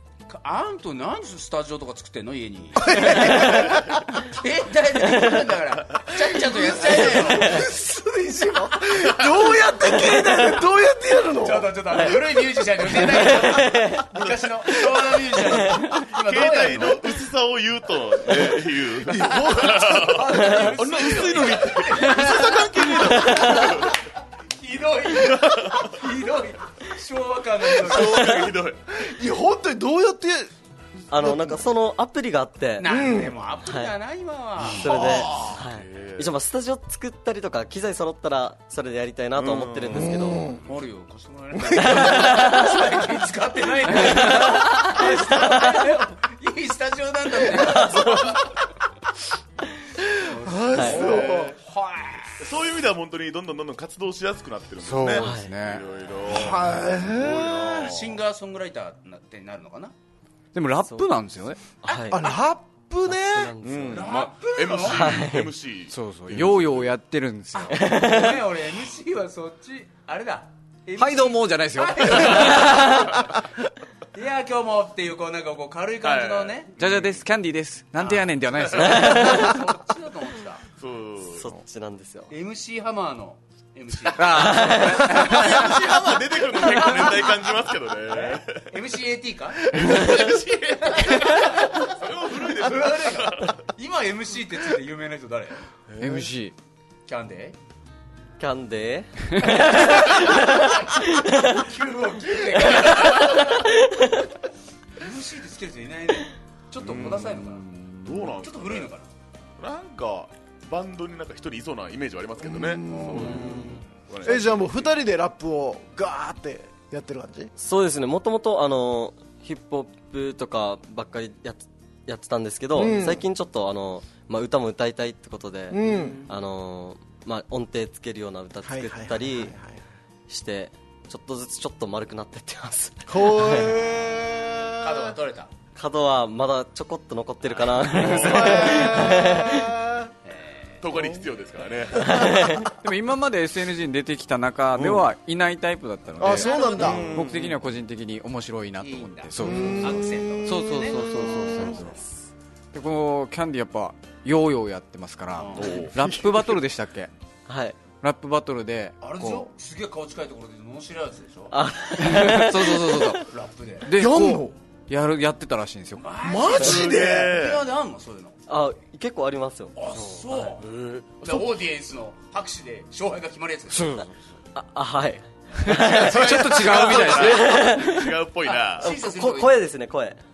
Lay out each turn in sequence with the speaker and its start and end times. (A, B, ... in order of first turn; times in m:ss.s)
0:00.3-0:03.6 A
0:02.8-0:04.0 B
0:04.2-0:07.6 A
0:05.1-0:05.4 C
0:06.2-0:12.1 B
0:07.2-0:07.6 C
0:11.4-0:17.0 A
0:11.9-0:12.2 C
0:12.9-0:14.0 C
0:16.1-0:24.0 D
0:19.0-0:20.2 B
0:19.6-0:22.6 A
0:23.0-0:23.7 C
0:24.6-0:28.4 A
0:25.1-0:26.0 D
0:27.8-0:28.8 D
0:28.0-0:28.5 C
0:28.9-0:30.5 B
0:31.1-0:33.9 C
0:31.2-0:31.6 B
0:32.8-0:35.0 A
0:32.9-0:33.3 B
0:34.6-0:40.5 C
0:34.6-0:36.3 D
0:39.4-0:40.2 D
0:39.9-0:40.6 B
0:40.6-0:48.3 A
0:41.7-0:42.8 C
0:43.9-0:45.8 C
0:47.5-0:48.3 C
0:48.0-0:48.4 D
0:50.0-0:51.6 B
0:50.2-0:52.4 A
0:50.7-0:51.0 C
0:50.8-0:51.6 D
0:52.4-0:58.1 D
0:54.8-0:55.8 E
0:55.0-0:55.6 C
0:56.2-0:57.9 B
0:57.2-0:59.9 A
1:00.5-1:01.6 E
1:00.8-1:01.1 C
1:01.8-1:02.4 C
1:02.1-1:03.6 B
1:03.0-1:04.2 C
1:03.6-1:06.9 D
1:03.9-1:05.1 A
1:04.8-1:05.5 C
1:05.9-1:07.9 E
1:07.5-1:13.3 A
1:07.7-1:08.4 C
1:11.0-1:12.9 E
1:14.1-1:16.7 A
1:16.0-1:17.2 D
1:16.8-1:19.5 E
1:18.0-1:20.6 A
1:18.8-1:19.6 C
1:20.8-1:21.5 D
1:21.3-1:22.3 C
1:22.3-1:25.5 A
1:24.2-1:25.6 E
1:24.3-1:25.3 C
1:25.1-1:28.7 D
1:28.1-1:30.0 A
1:29.7-1:33.6 D
1:31.0-1:31.7 A
1:32.3-1:35.6 A
1:35.9-1:36.2 D
1:36.0-1:36.5 E
1:37.0-1:37.6 A
1:38.4-1:41.6 C
1:41.4-1:43.6 A
1:42.8-1:44.3 C
1:45.0-1:49.1 A
1:46.8-1:47.5 D
1:48.0-1:48.9 D
1:49.6-1:54.9 D
1:52.4-1:53.6 B
1:53.3-1:53.7 C
1:54.2-1:57.5 B
1:57.6-2:09.6 C
2:02.8-2:03.2 B
2:05.7-2:06.2 B
2:05.9-2:06.3 A
2:08.6-2:09.8 B
2:10.3-2:13.8 C
2:13.1-2:15.1 B
2:14.8-2:15.5 A
2:15.7-2:19.8 C
2:17.5-2:18.2 A
2:17.9-2:18.8 D
2:18.1-2:20.1 B
2:20.2-2:20.8 A
2:20.8-2:22.4 D
2:20.9-2:21.2 B
2:22.0-2:22.7 C
2:22.8-2:32.0 E
2:24.7-2:25.0 D
2:26.2-2:27.3 B
2:26.2-2:27.1 A
2:26.8-2:27.6 D
2:28.8-2:31.6 A
2:29.4-2:31.9 B
2:32.7-2:37.1 E
2:35.3-2:35.9 A
2:35.6-2:35.9 D
2:37.5-2:37.8 C
2:37.9-2:39.5 E
2:39.0-2:41.6 A
2:41.5-2:43.2 C
2:42.0-2:43.3 E
2:43.3-2:43.9 A
2:43.8-2:46.1 E
2:43.9-2:44.5 B
2:45.9-2:48.4 A
2:46.2-2:47.4 B
2:46.6-2:47.6 D
2:48.5-2:49.7 C
2:49.7-2:50.6 A
2:50.6-2:51.5 D
2:51.2-2:53.9 A
2:53.7-2:54.1 E
2:53.9-2:58.1 C
2:55.6-2:57.7 A
2:55.7-2:57.8 E
2:56.1-2:58.9 D
2:58.5-2:59.6 A
2:58.8-3:00.2 C